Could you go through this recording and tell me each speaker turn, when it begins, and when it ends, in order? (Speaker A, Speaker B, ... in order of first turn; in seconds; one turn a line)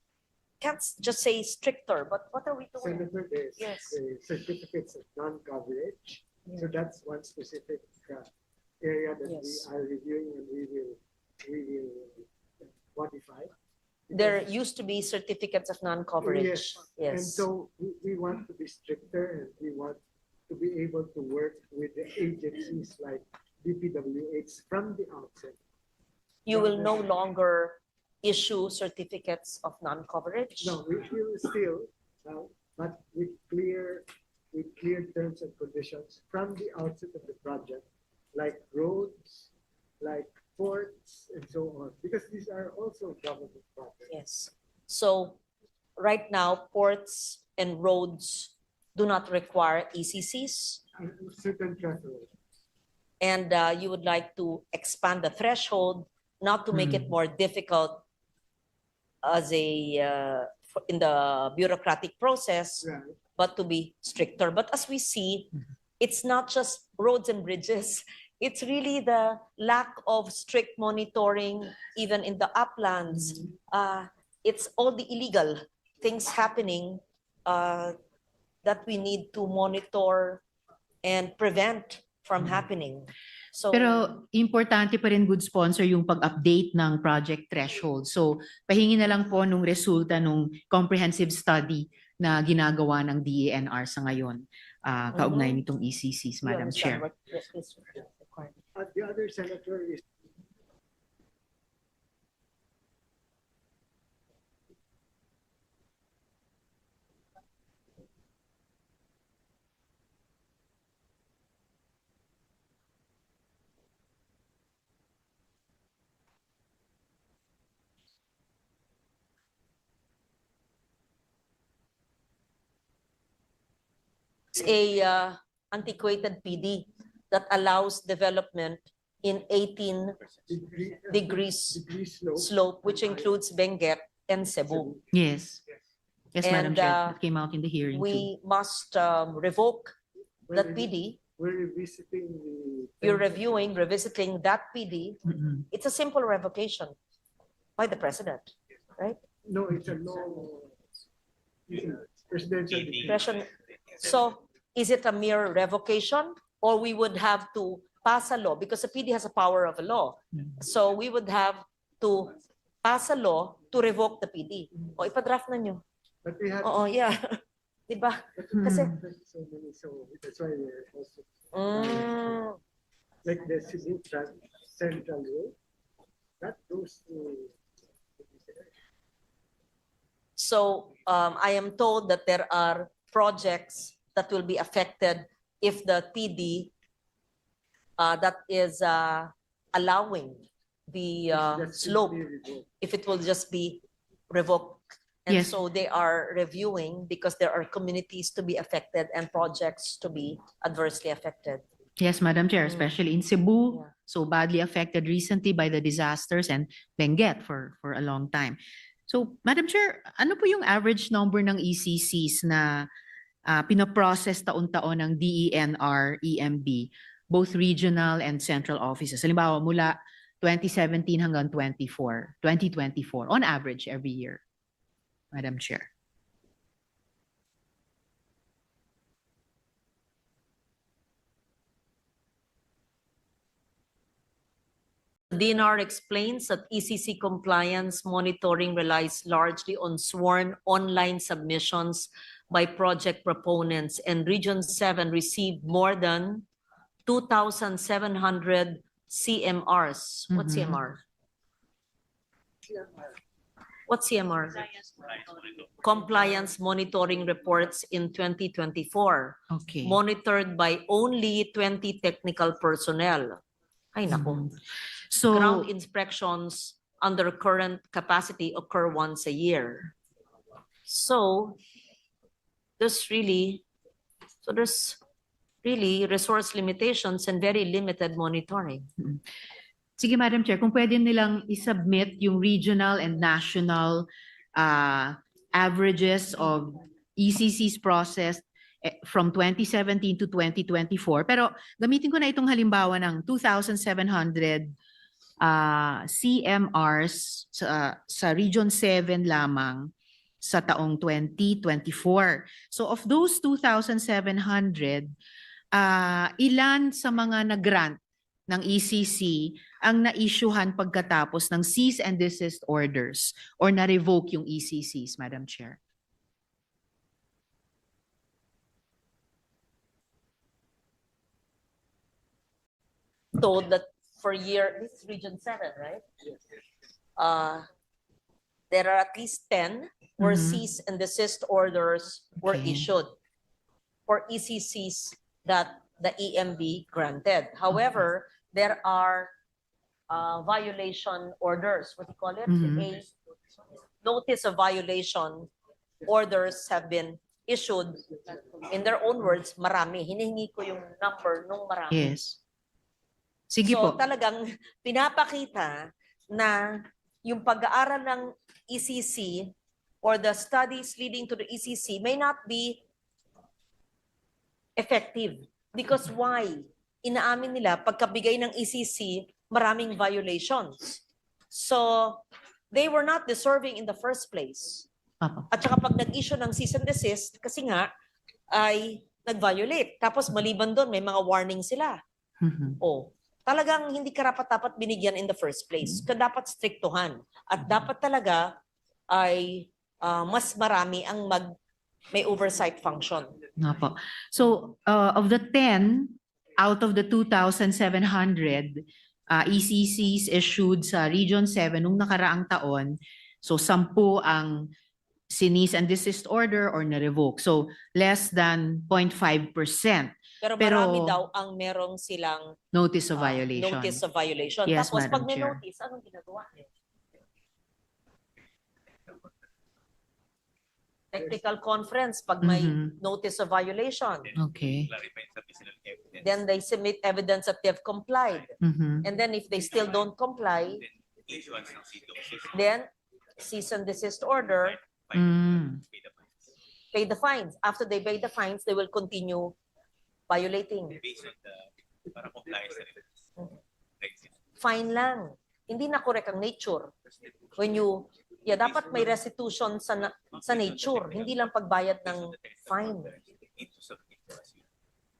Speaker A: 0.6-3.0
Speaker B: 2.8-8.3
Speaker A: 3.6-4.0
Speaker B: 8.8-13.5
Speaker A: 9.2-9.7
Speaker B: 14.1-14.4
Speaker A: 14.1-17.4
Speaker B: 16.2-25.6
Speaker A: 26.4-30.8
Speaker B: 26.5-27.1
Speaker B: 30.6-44.1
Speaker A: 44.1-45.4
Speaker A: 46.0-50.8
Speaker B: 50.9-52.3
Speaker A: 53.2-58.0
Speaker C: 56.7-57.1
Speaker A: 59.2-62.9
Speaker B: 62.8-63.2
Speaker A: 63.4-77.9
Speaker A: 78.6-80.4
Speaker A: 81.0-84.0
Speaker C: 83.7-97.0
Speaker A: 95.1-95.6
Speaker A: 96.4-98.5
Speaker B: 98.7-100.0
Speaker A: 124.5-130.2
Speaker B: 130.5-133.3
Speaker A: 131.1-131.8
Speaker A: 132.4-134.9
Speaker B: 134.7-135.0
Speaker C: 135.1-135.6
Speaker C: 136.3-138.3
Speaker A: 136.4-137.2
Speaker A: 137.9-139.9
Speaker B: 140.4-143.4
Speaker A: 140.5-141.2
Speaker A: 143.0-146.9
Speaker C: 145.3-145.6
Speaker A: 147.8-149.2
Speaker B: 149.4-150.8
Speaker B: 151.7-153.4
Speaker D: 152.7-154.1
Speaker A: 153.1-153.5
Speaker A: 154.0-165.8
Speaker B: 166.2-166.8
Speaker A: 166.6-168.9
Speaker B: 168.3-172.3
Speaker C: 168.6-168.9
Speaker A: 171.5-172.6
Speaker B: 173.2-175.6
Speaker B: 176.4-177.6
Speaker B: 178.2-178.7
Speaker A: 180.4-186.7
Speaker A: 188.0-192.2
Speaker B: 191.3-192.7
Speaker A: 192.8-201.6
Speaker C: 195.3-195.6
Speaker C: 202.0-212.9
Speaker C: 213.4-224.4
Speaker C: 225.3-225.9
Speaker A: 235.3-246.4
Speaker A: 247.1-251.0
Speaker C: 250.3-250.9
Speaker A: 253.9-254.7
Speaker D: 255.0-255.8
Speaker A: 255.8-263.4
Speaker C: 259.5-260.0
Speaker A: 263.9-264.5
Speaker C: 264.1-264.5
Speaker C: 265.1-265.7
Speaker A: 265.3-269.9
Speaker A: 270.9-271.6
Speaker A: 272.8-273.6
Speaker A: 274.4-275.0
Speaker A: 275.6-278.9
Speaker C: 280.0-294.7
Speaker C: 295.4-305.1
Speaker C: 305.7-315.8
Speaker A: 323.3-326.0
Speaker A: 327.2-327.7
Speaker A: 328.7-333.1
Speaker C: 330.2-330.6
Speaker C: 332.4-332.9
Speaker A: 334.1-339.3
Speaker A: 340.1-343.1
Speaker C: 342.5-342.9
Speaker A: 344.0-345.5
Speaker A: 346.1-348.0
Speaker B: 348.1-348.4
Speaker A: 348.7-352.1
Speaker C: 351.9-352.4
Speaker C: 353.5-354.0
Speaker A: 353.6-362.8
Speaker A: 364.8-374.9
Speaker C: 375.2-375.5
Speaker A: 375.5-377.9
Speaker A: 378.5-382.0
Speaker C: 382.4-382.8
Speaker A: 382.8-388.6
Speaker A: 389.1-391.5
Speaker A: 392.1-393.3
Speaker C: 393.6-404.7
Speaker C: 405.3-411.1
Speaker A: 410.4-412.6
Speaker C: 412.7-414.0
Speaker A: 413.1-416.7
Speaker C: 414.6-415.6
Speaker D: 419.0-419.3
Speaker A: 421.1-424.3
Speaker C: 422.4-422.9
Speaker D: 424.2-426.4
Speaker C: 424.4-424.9
Speaker A: 426.2-428.5
Speaker C: 428.6-429.1
Speaker A: 429.0-430.8
Speaker D: 429.6-430.0
Speaker D: 430.6-432.6
Speaker A: 432.5-434.8
Speaker D: 434.6-436.3
Speaker C: 435.1-435.8
Speaker A: 436.9-439.5
Speaker A: 440.3-441.0
Speaker D: 440.9-443.1
Speaker D: 444.0-444.4
Speaker A: 444.6-446.9
Speaker A: 447.6-453.1
Speaker D: 448.6-449.1
Speaker D: 450.0-454.6